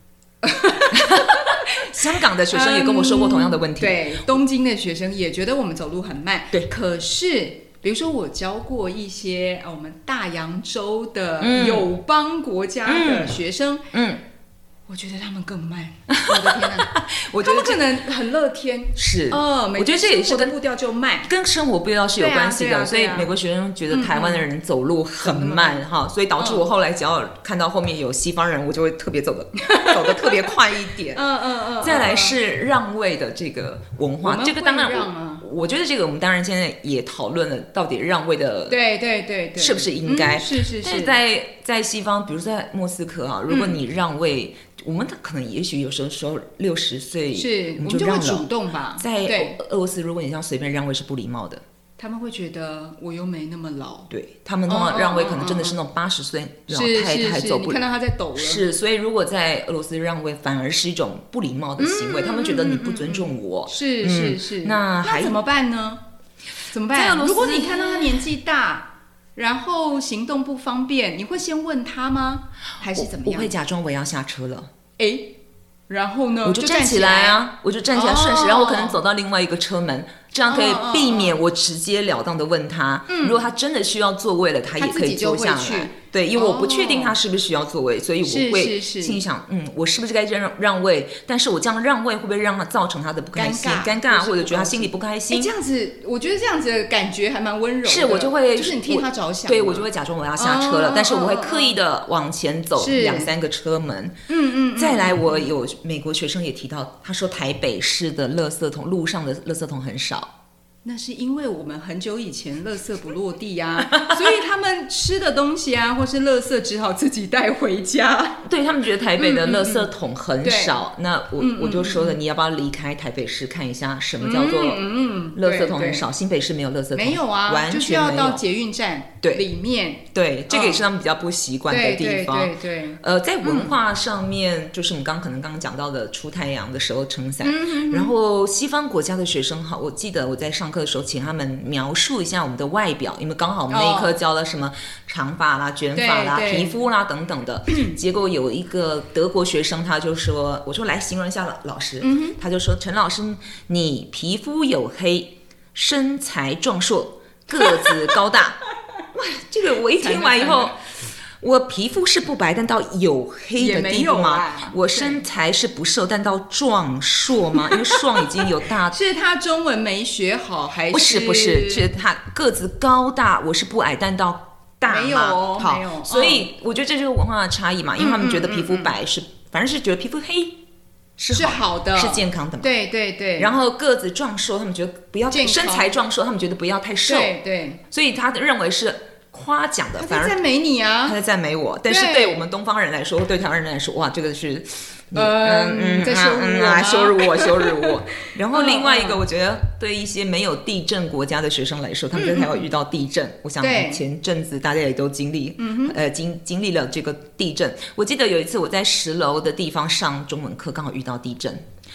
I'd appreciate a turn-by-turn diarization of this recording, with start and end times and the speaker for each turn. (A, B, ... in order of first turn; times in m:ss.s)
0:00.4-0:13.9 A
0:00.9-0:04.3 B
0:11.4-0:11.9 B
0:12.8-0:13.4 B
0:13.9-0:14.2 B
0:14.9-0:21.3 A
0:16.1-0:17.8 B
0:19.0-0:20.6 B
0:21.3-0:31.2 B
0:22.2-0:23.3 A
0:23.9-0:24.4 A
0:25.2-0:25.8 A
0:26.4-0:26.6 A
0:29.6-0:30.5 A
0:31.1-0:32.4 A
0:31.8-0:38.8 B
0:34.2-0:35.4 A
0:38.7-0:41.2 A
0:39.6-0:48.5 B
0:43.5-0:43.8 A
0:47.3-0:49.6 A
0:49.0-0:51.6 B
0:52.0-0:54.1 A
0:54.1-0:57.8 B
0:54.7-0:55.8 A
0:56.7-0:58.6 A
0:58.4-1:05.4 B
1:01.8-1:06.0 A
1:06.7-1:13.5 A
1:06.9-1:08.2 B
1:12.9-1:14.7 B
1:15.0-1:15.3 A
1:15.9-1:19.0 A
1:16.4-1:35.5 B
1:20.5-1:21.4 A
1:23.1-1:23.5 A
1:24.8-1:27.2 A
1:28.2-1:29.2 A
1:33.3-1:41.8 A
1:37.8-1:44.1 B
1:42.8-1:43.3 A
1:44.3-1:45.5 A
1:44.8-1:50.3 B
1:50.8-1:58.5 A
1:53.9-1:54.3 B
1:58.4-2:08.4 B
1:59.2-1:59.9 A
2:00.4-2:00.8 A
2:01.4-2:02.2 A
2:04.2-2:06.0 A
2:06.9-2:10.8 A
2:10.1-2:38.6 B
2:11.7-2:13.8 A
2:17.4-2:18.1 A
2:23.7-2:24.1 A
2:25.9-2:26.8 A
2:32.0-2:32.4 A
2:37.5-2:38.2 A
2:39.1-2:40.8 B
2:39.9-2:40.7 A
2:41.4-2:49.0 B
2:43.6-2:45.2 A
2:47.6-2:51.9 A
2:50.9-3:00.6 B
2:54.8-2:56.5 A
2:58.0-2:58.9 A
3:01.2-3:02.7 B
3:01.3-3:03.5 A
3:03.4-3:07.3 B
3:05.3-3:06.0 A
3:07.0-3:07.8 A
3:07.9-3:10.4 B
3:10.0-3:11.2 A
3:11.0-3:31.6 B
3:11.9-3:12.4 A
3:15.1-3:19.2 A
3:22.1-3:22.7 A
3:23.6-3:24.0 A
3:25.6-3:26.0 A